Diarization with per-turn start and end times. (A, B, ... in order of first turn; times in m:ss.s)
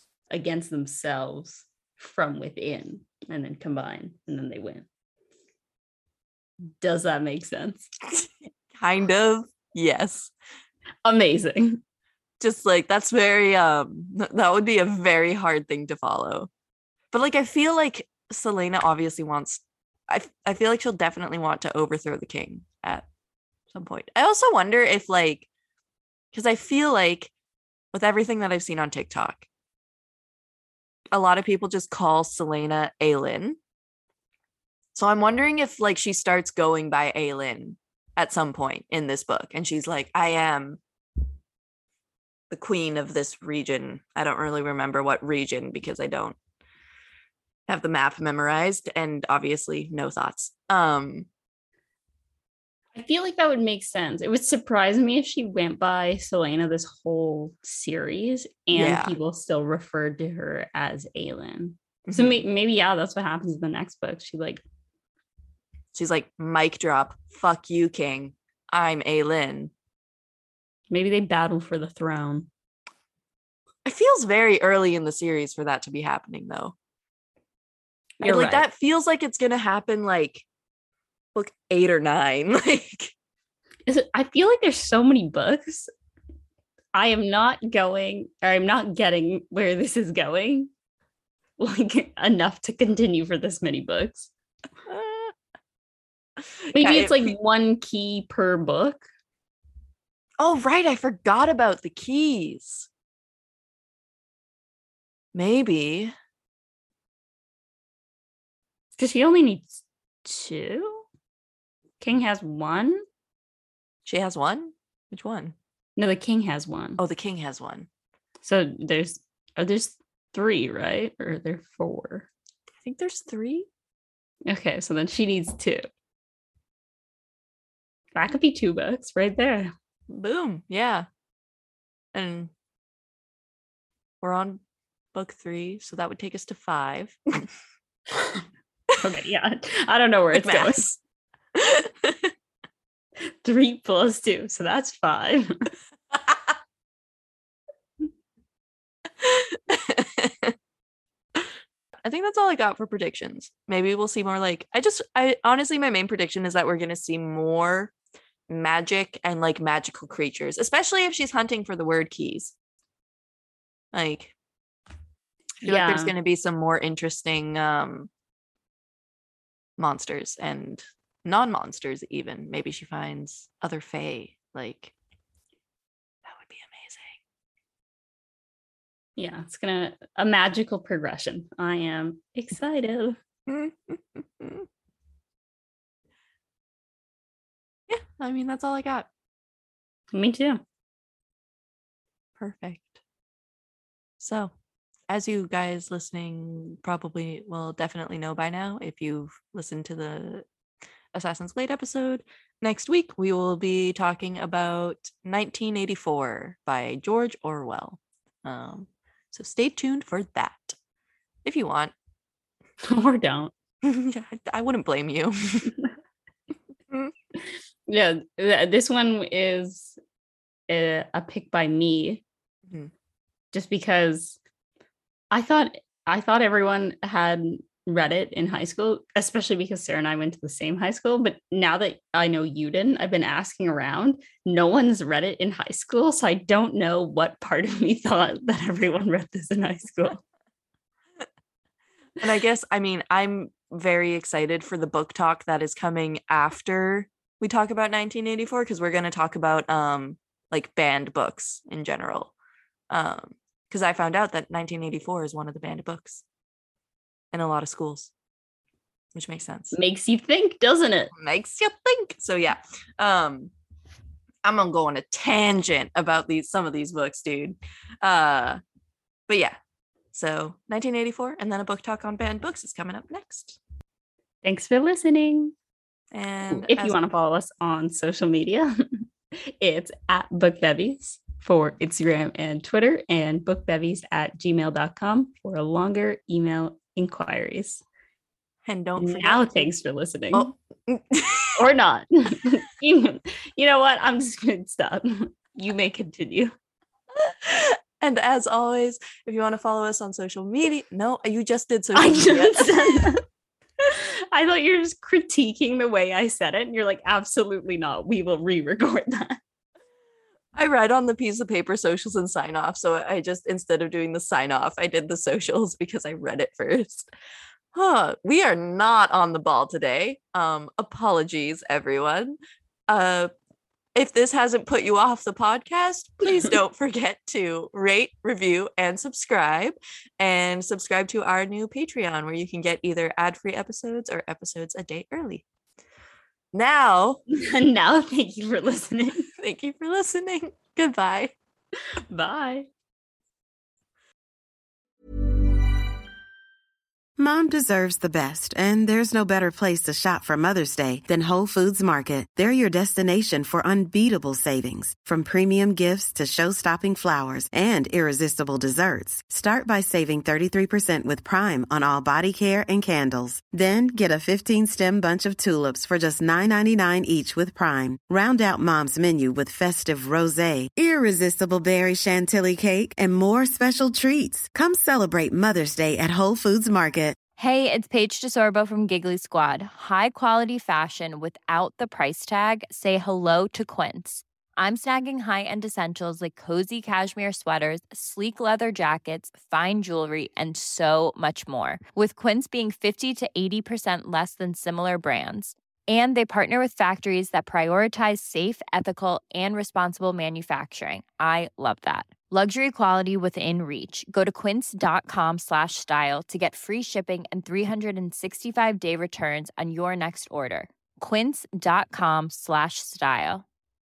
0:00.3-0:04.8 A
0:06.8-0:07.9 A
0:08.1-0:10.3 B
0:11.0-0:11.8 A
0:12.4-0:16.5 B
0:17.1-0:23.0 B
0:23.7-0:25.5 B
0:26.3-0:27.3 B
0:27.9-0:29.4 B
0:31.1-0:33.6 B
0:34.9-0:40.8 B
0:42.5-0:46.4 B
0:47.7-0:51.3 B
0:52.9-1:04.6 A
0:58.7-0:59.2 B
1:02.1-1:02.4 B
1:05.9-1:09.7 B
1:10.9-1:12.5 A
1:13.8-1:16.7 B
1:18.2-1:20.4 B
1:18.2-1:18.6 A
1:21.3-1:23.1 B
1:23.9-1:25.9 A
1:26.9-1:30.7 A
1:31.6-1:34.3 A
1:34.9-1:35.3 B
1:36.7-1:37.4 B
1:36.7-1:39.0 A
1:40.4-1:42.9 B
1:45.3-1:46.1 B
1:49.0-1:51.0 A
1:52.0-1:53.0 A
1:54.0-1:55.6 B
1:56.0-1:57.0 A
1:57.0-1:57.9 B
1:58.4-2:02.3 A
2:02.8-2:03.7 B
2:04.5-2:05.8 A
2:08.1-2:09.7 A
2:10.1-2:11.1 B
2:12.1-2:12.5 B
2:14.2-2:14.6 B
2:15.1-2:17.5 B
2:19.0-2:21.0 A
2:20.3-2:20.8 B
2:21.5-2:22.3 B
2:23.4-2:25.7 A
2:26.1-2:26.5 B
2:29.2-2:30.5 B
2:32.0-2:37.9 B
2:38.5-2:42.5 B
2:43.9-2:44.3 B
2:45.6-2:48.1 B
2:45.6-2:46.1 A
2:49.8-2:54.9 B
2:56.2-2:57.2 B
2:59.2-3:03.2 A
3:03.5-3:04.6 B
3:07.9-3:09.1 B
3:10.1-3:10.6 A
3:12.4-3:13.0 B
3:14.2-3:14.5 B
3:15.1-3:20.4 B
3:21.1-3:30.8 B
3:31.4-3:31.9 B
3:32.8-3:33.5 A
3:33.8-3:35.7 B
3:37.9-3:40.0 A
3:40.7-3:42.2 A
3:43.5-3:44.4 A
3:45.3-4:00.2 A
4:02.2-4:12.3 B
4:12.9-4:16.2 B
4:17.3-4:18.1 B
4:19.1-4:19.7 B
4:19.7-4:21.1 A
4:21.1-4:23.5 B
4:24.4-4:28.6 B
4:29.3-4:29.6 B
4:30.1-4:33.6 B
4:34.4-4:35.5 A
4:36.1-4:37.0 B
4:36.5-4:38.8 A
4:39.5-4:47.8 A
4:48.6-4:49.7 B
4:49.0-4:50.5 A
4:50.3-4:51.6 B
4:51.6-4:56.5 A
4:57.1-5:03.1 B
5:01.9-5:03.2 A
5:03.8-5:09.4 A
5:10.5-5:17.1 B
5:17.7-5:22.4 B
5:22.9-5:23.3 B
5:23.9-5:35.4 B
5:36.5-5:37.2 B
5:37.3-5:39.3 A
5:39.4-5:41.3 B
5:42.1-5:42.7 A
5:47.2-6:17.2 C
6:17.4-6:53.4 D